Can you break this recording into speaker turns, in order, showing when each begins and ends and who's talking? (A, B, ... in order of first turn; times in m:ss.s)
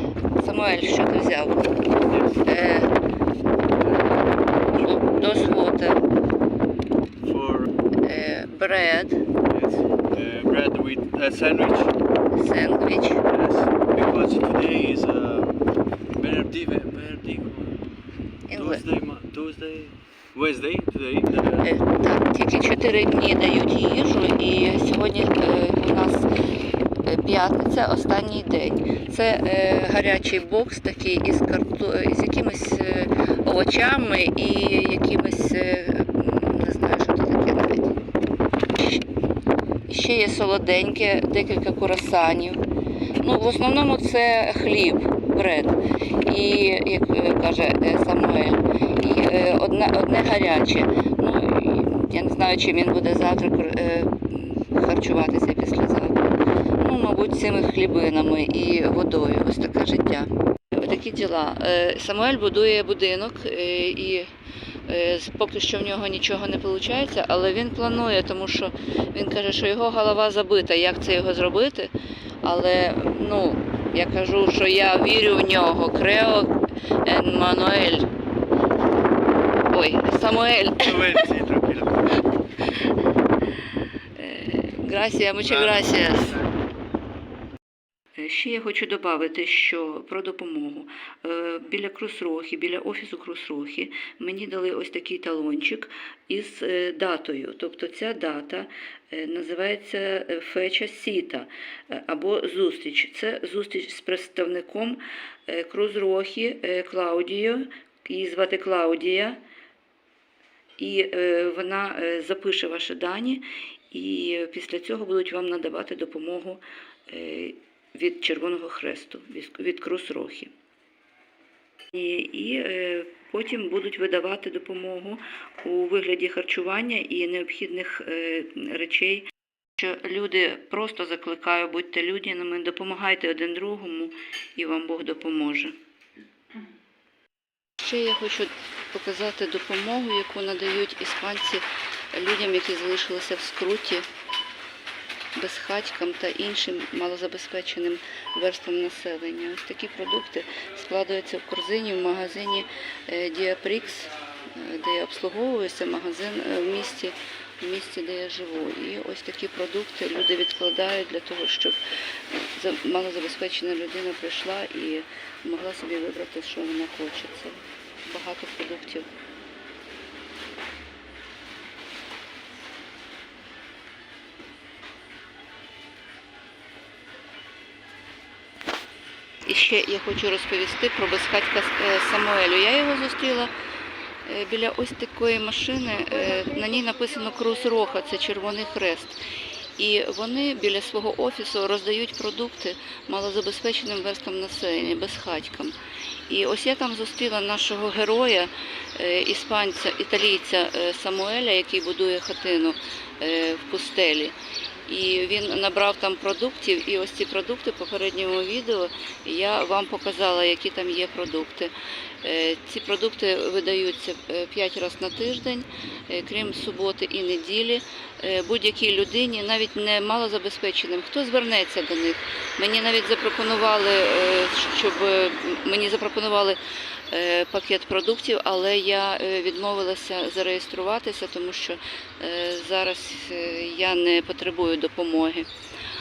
0:00.4-0:01.8 A
0:02.1-0:02.5 B
0:02.4-0:02.9 A
0:03.6-0:05.6 B
0:04.8-0:06.0 A
0:07.2-0:07.7 B
0:08.0-0:09.2 A
0:09.5-0:12.0 B
0:12.3-0:13.2 A
0:13.3-0:15.6 B
0:16.2-0:17.8 B
0:18.5-0:18.8 A
0:18.5-0:21.7 B
0:21.6-0:26.3 A
0:27.0-0:38.0 A
0:39.9-0:42.6 A
0:43.2-1:04.3 A
1:04.9-1:11.9 A
1:12.4-1:18.1 A
1:19.7-1:21.2 A
1:20.8-1:22.0 B
1:24.2-1:26.4 A
1:25.5-1:26.5 B
1:28.2-1:49.4 A
1:50.8-2:00.5 A
2:01.9-2:15.8 A
2:17.8-2:24.1 A
2:25.4-2:49.1 A
2:59.5-3:03.5 A
3:04.2-3:09.2 A
3:09.8-3:15.8 A
3:16.3-3:24.4 A
3:24.9-3:46.6 A
3:47.1-3:55.5 A